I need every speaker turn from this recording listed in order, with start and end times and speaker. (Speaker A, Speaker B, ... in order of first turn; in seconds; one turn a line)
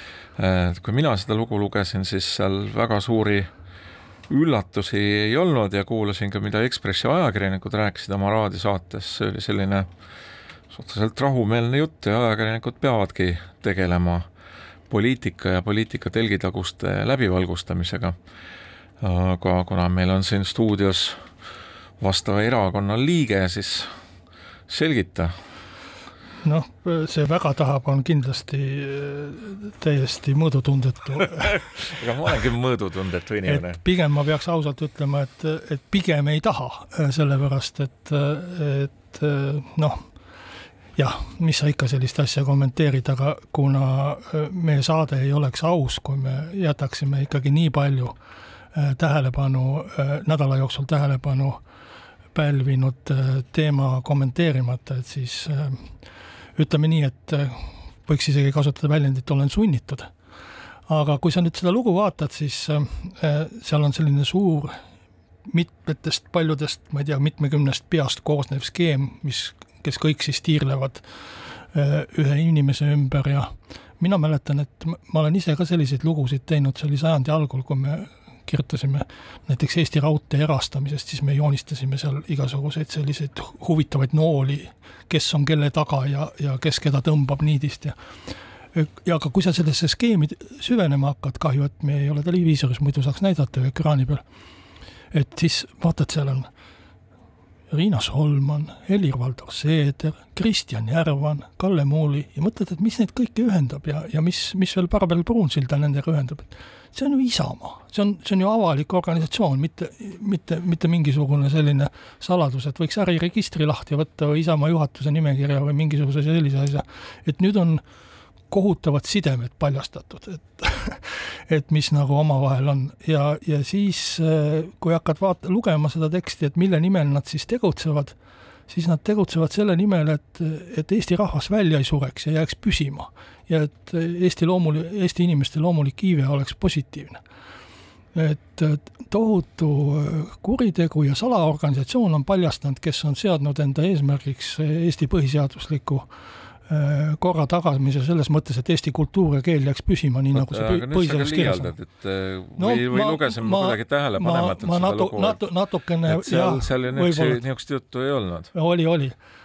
Speaker A: 0.4-3.5
Speaker A: 4.3-9.9
Speaker A: 10.7-14.3
Speaker A: 14.9-18.1
Speaker A: 19.0-21.2
Speaker A: 22.0-23.9
Speaker A: 24.7-25.3
Speaker B: 26.4-31.8
Speaker A: 31.4-33.8
Speaker B: 33.4-40.0
Speaker B: 41.0-48.2
Speaker B: 48.7-51.6
Speaker B: 52.3-55.9
Speaker B: 56.5-60.1
Speaker B: 60.9-64.8
Speaker B: 65.5-88.0
Speaker B: 88.7-94.2
Speaker B: 95.1-96.5
Speaker B: 97.7-117.8
Speaker B: 118.5-128.1
Speaker B: 128.7-137.2
Speaker B: 138.1-146.1
Speaker B: 146.7-151.7
Speaker A: 150.3-155.4
Speaker B: 152.6-157.4
Speaker A: 156.0-158.5
Speaker B: 158.5-159.2